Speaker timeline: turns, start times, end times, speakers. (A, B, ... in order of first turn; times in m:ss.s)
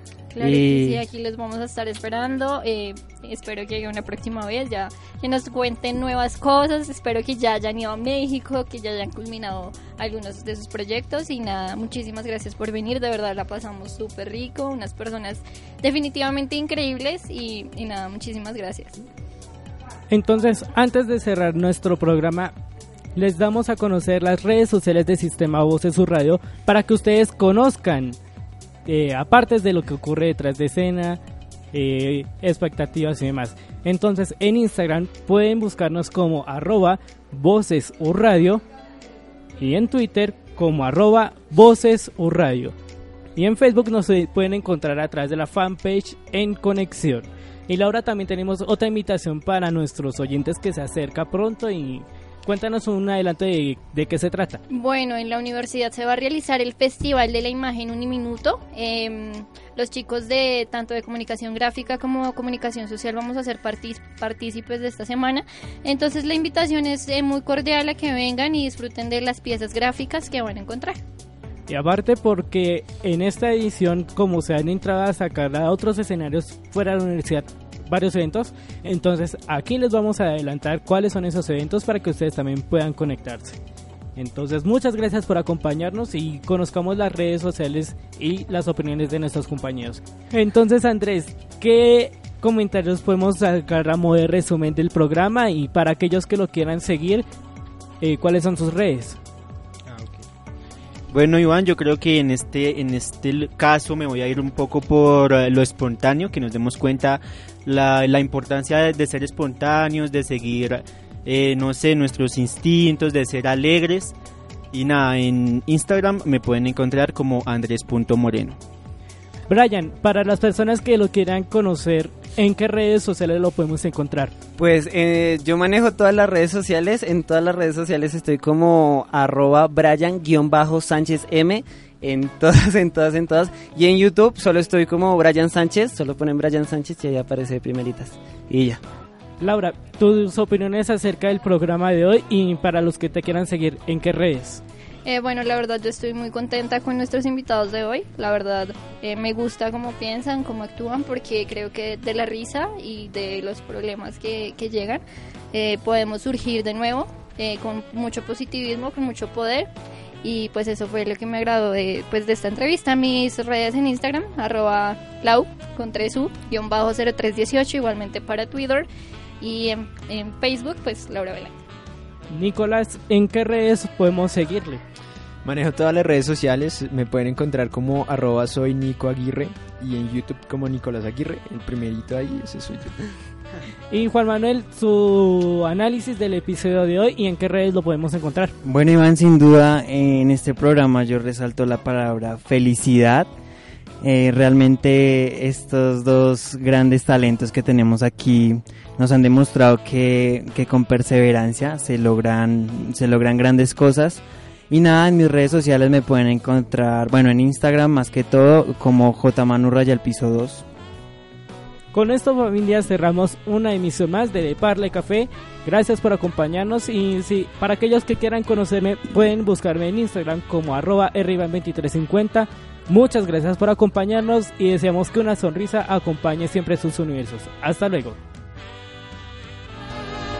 0:00.3-0:18.9 A
0:00.4-0:01.0 B
0:20.1-0:22.5 C
0:23.2-0:28.2 C
0:28.8-0:31.2 C
0:31.7-0:38.6 C
0:39.6-0:42.7 C
0:43.4-0:54.6 C
0:54.7-1:11.0 A
1:11.7-1:23.6 C
1:24.2-1:37.2 C
1:38.0-1:39.2 C
1:39.9-1:40.2 D
1:41.1-1:54.1 D
1:54.7-1:58.6 D
1:59.5-2:04.3 C
2:04.6-2:18.8 B
2:19.4-2:24.6 C
2:25.0-2:35.0 A
2:35.5-2:39.7 A
2:40.2-2:48.9 A
2:49.4-2:51.6 A
2:52.3-2:54.8 C
2:55.4-3:03.0 E
3:03.9-3:08.5 C
3:08.6-3:13.3 F
3:14.0-3:30.6 F
3:31.9-3:48.2 C